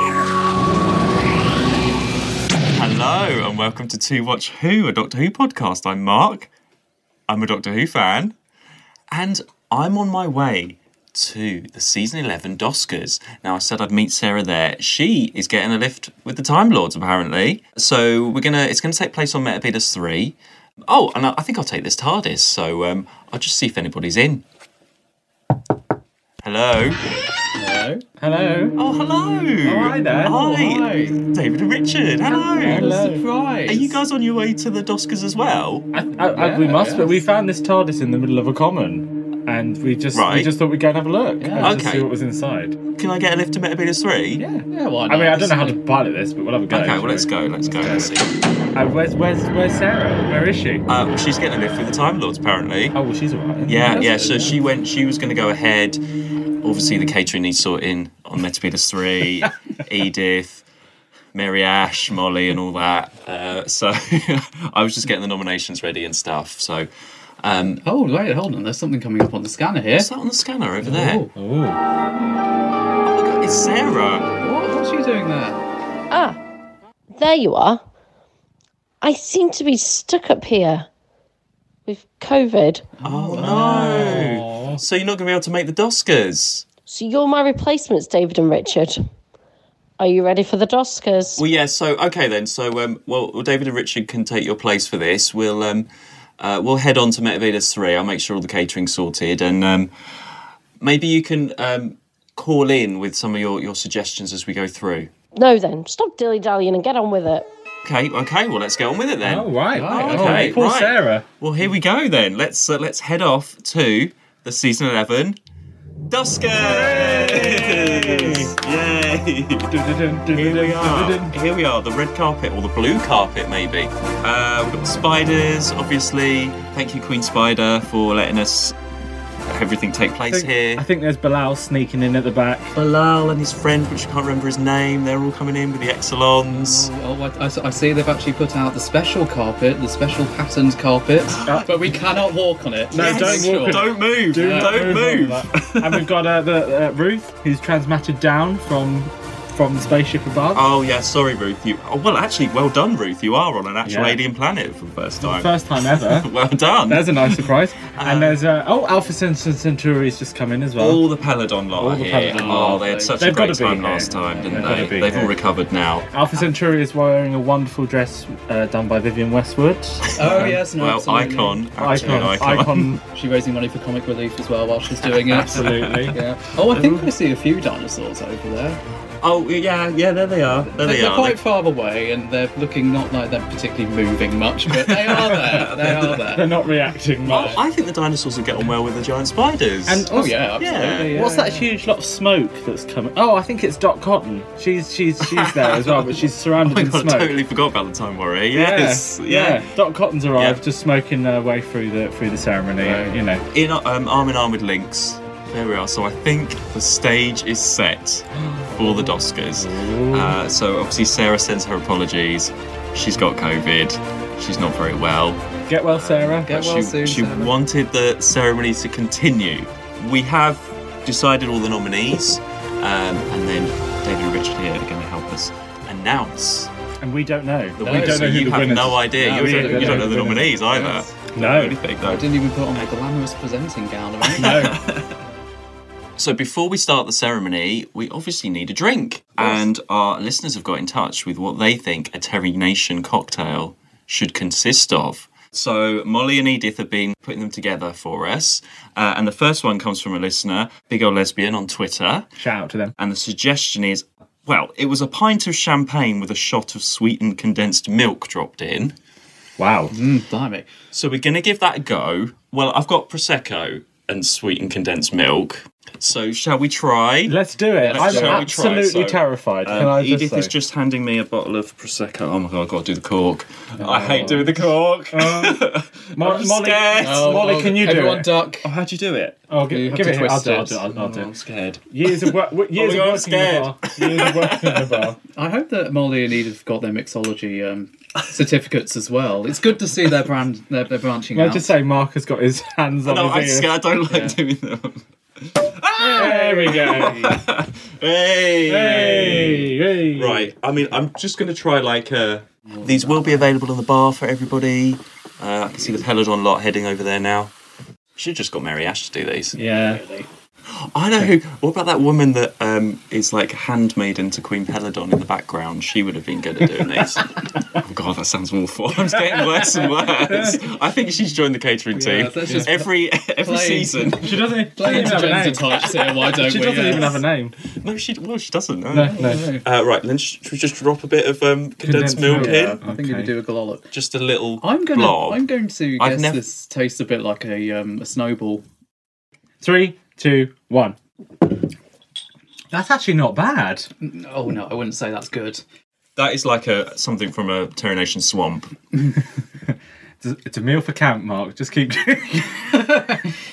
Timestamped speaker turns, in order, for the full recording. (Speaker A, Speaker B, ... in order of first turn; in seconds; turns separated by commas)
Speaker A: 2.7-6.5, Speaker A: 7.3-8.4, Speaker A: 9.1-24.4, Speaker A: 26.4-27.0, Speaker B: 27.6-28.0, Speaker C: 28.2-28.8, Speaker A: 28.8-32.9, Speaker C: 29.6-30.4, Speaker B: 30.1-31.2, Speaker B: 32.4-33.9, Speaker C: 32.6-33.2, Speaker A: 33.7-35.9, Speaker C: 35.9-42.8, Speaker B: 36.4-37.2, Speaker A: 40.1-40.5, Speaker B: 41.4-41.8, Speaker A: 41.6-42.1, Speaker A: 42.9-44.4, Speaker C: 44.4-48.1, Speaker B: 44.7-45.8, Speaker A: 46.7-48.3, Speaker C: 48.8-50.9, Speaker A: 50.9-53.0, Speaker C: 52.9-54.1, Speaker A: 53.7-56.0, Speaker B: 53.9-54.5, Speaker A: 56.6-60.6, Speaker A: 61.3-66.9, Speaker A: 67.4-67.8, Speaker B: 67.8-70.1, Speaker A: 70.0-71.2, Speaker B: 70.9-71.3, Speaker C: 70.9-71.8, Speaker A: 73.0-74.3, Speaker B: 74.4-75.6, Speaker D: 76.1-76.4, Speaker D: 77.2-77.8, Speaker D: 79.0-80.9, Speaker D: 81.9-82.8, Speaker B: 83.0-84.4, Speaker A: 83.0-86.7, Speaker C: 83.4-84.8, Speaker D: 86.9-89.0, Speaker D: 90.0-91.4, Speaker A: 91.4-95.9, Speaker A: 96.4-99.9, Speaker A: 100.8-105.1, Speaker D: 105.4-107.5, Speaker A: 107.8-115.4, Speaker C: 109.2-111.2, Speaker B: 109.7-110.5, Speaker A: 116.1-119.7, Speaker C: 116.5-118.5, Speaker C: 119.7-121.3, Speaker A: 120.3-128.8, Speaker A: 129.5-130.8, Speaker C: 130.3-132.7, Speaker A: 132.8-136.9, Speaker B: 136.5-144.8, Speaker C: 142.9-150.7, Speaker A: 142.9-146.1, Speaker A: 150.5-158.4, Speaker C: 153.8-154.2, Speaker C: 155.2-156.3, Speaker C: 156.9-161.1, Speaker A: 160.8-166.1, Speaker C: 161.8-165.3, Speaker B: 162.3-163.2, Speaker B: 164.0-164.9, Speaker C: 166.1-170.6, Speaker A: 170.1-172.9, Speaker B: 170.2-172.5, Speaker C: 171.8-173.0, Speaker B: 173.1-178.8, Speaker C: 175.4-176.2, Speaker A: 175.5-176.1, Speaker A: 176.7-177.1, Speaker A: 179.2-181.4, Speaker B: 180.7-186.5, Speaker A: 184.8-186.3, Speaker C: 186.3-187.6, Speaker A: 187.2-191.2, Speaker C: 189.9-190.4, Speaker B: 190.1-191.7, Speaker C: 191.1-197.4, Speaker A: 195.2-199.7, Speaker C: 198.5-203.4, Speaker A: 200.3-200.6, Speaker B: 202.8-203.2, Speaker A: 203.5-226.7, Speaker C: 208.4-210.4, Speaker C: 215.7-216.6, Speaker B: 216.5-217.5, Speaker C: 227.0-231.8, Speaker A: 227.8-232.3, Speaker B: 227.8-231.0, Speaker B: 232.0-234.8, Speaker A: 234.3-235.2, Speaker C: 234.4-234.7, Speaker A: 236.2-252.3, Speaker C: 252.4-252.9, Speaker A: 253.0-259.0, Speaker C: 259.6-259.9, Speaker B: 259.9-260.7, Speaker A: 260.9-277.6, Speaker C: 267.3-270.5, Speaker B: 267.8-268.5, Speaker B: 273.8-274.4, Speaker C: 273.9-278.3, Speaker B: 277.0-278.7, Speaker A: 278.6-279.4, Speaker C: 279.5-281.3, Speaker B: 279.7-280.9, Speaker A: 280.9-285.1, Speaker C: 281.9-285.2, Speaker B: 285.3-291.7, Speaker C: 291.3-293.8, Speaker A: 293.1-307.5, Speaker B: 294.1-294.4, Speaker C: 296.0-297.4, Speaker B: 296.3-297.0, Speaker C: 298.7-300.5, Speaker B: 302.7-303.5, Speaker A: 308.2-309.6, Speaker C: 309.6-310.3, Speaker A: 310.7-327.2, Speaker C: 319.1-320.6, Speaker B: 322.0-327.2, Speaker C: 324.2-327.6, Speaker A: 327.7-332.8, Speaker C: 328.9-329.5, Speaker B: 329.0-329.6, Speaker C: 331.8-333.3, Speaker B: 332.3-333.9, Speaker A: 333.9-335.5, Speaker B: 334.6-338.6, Speaker A: 336.0-336.4, Speaker C: 339.6-341.0, Speaker C: 342.7-343.9, Speaker B: 344.0-345.6, Speaker A: 346.2-348.8, Speaker C: 350.2-353.3